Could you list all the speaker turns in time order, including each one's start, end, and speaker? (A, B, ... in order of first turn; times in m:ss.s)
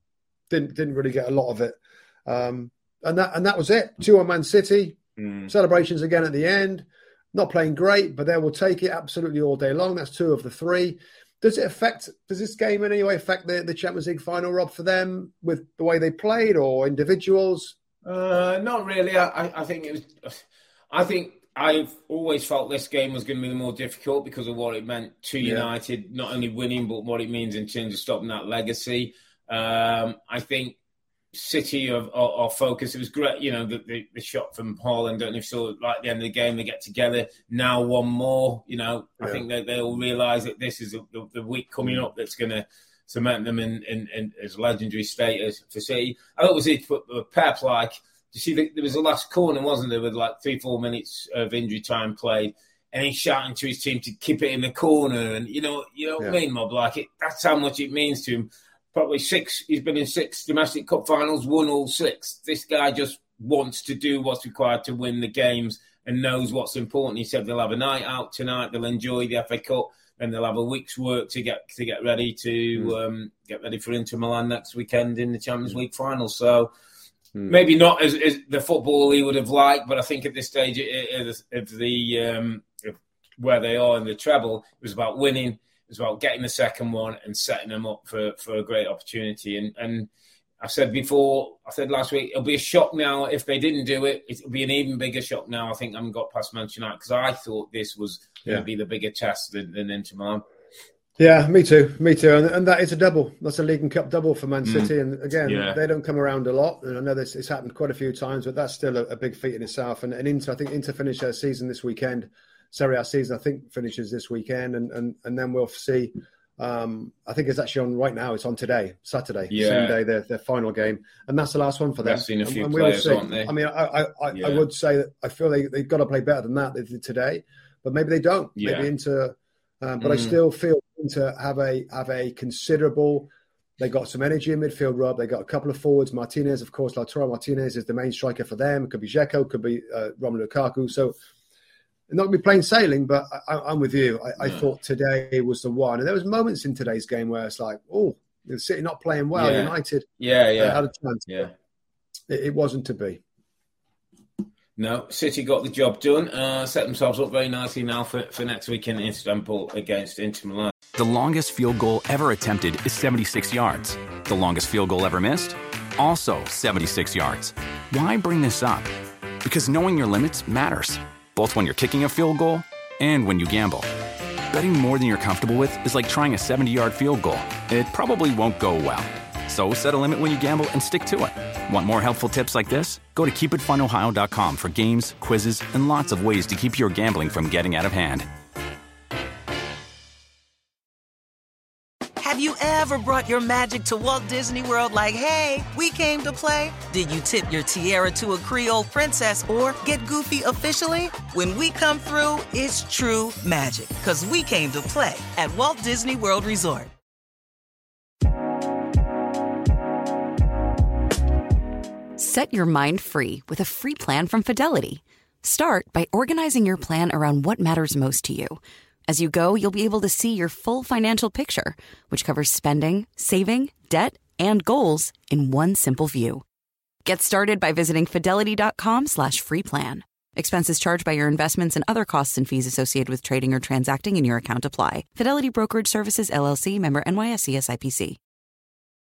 0:00.5-0:17.8 A
0:05.2-0:05.5 B
0:18.0-0:30.8 B
0:25.4-0:25.7 A
0:31.3-1:16.7 B
1:17.5-1:30.1 B
1:30.6-1:40.4 B
1:41.2-2:21.2 A
1:44.6-1:44.9 B
1:45.4-1:45.8 B
1:59.5-2:00.0 B
2:02.0-2:03.5 B
2:04.3-2:04.6 B
2:08.6-2:08.9 B
2:10.0-2:10.3 B
2:22.1-2:30.1 A
2:24.4-2:24.6 B
2:29.3-2:31.5 B
2:30.6-2:31.5 A
2:32.3-2:33.2 A
2:34.8-2:40.7 B
2:40.9-2:48.9 C
2:49.4-2:53.9 C
2:54.5-3:08.3 C
3:12.2-3:26.9 D
3:32.2-3:46.4 E
3:47.0-3:58.2 E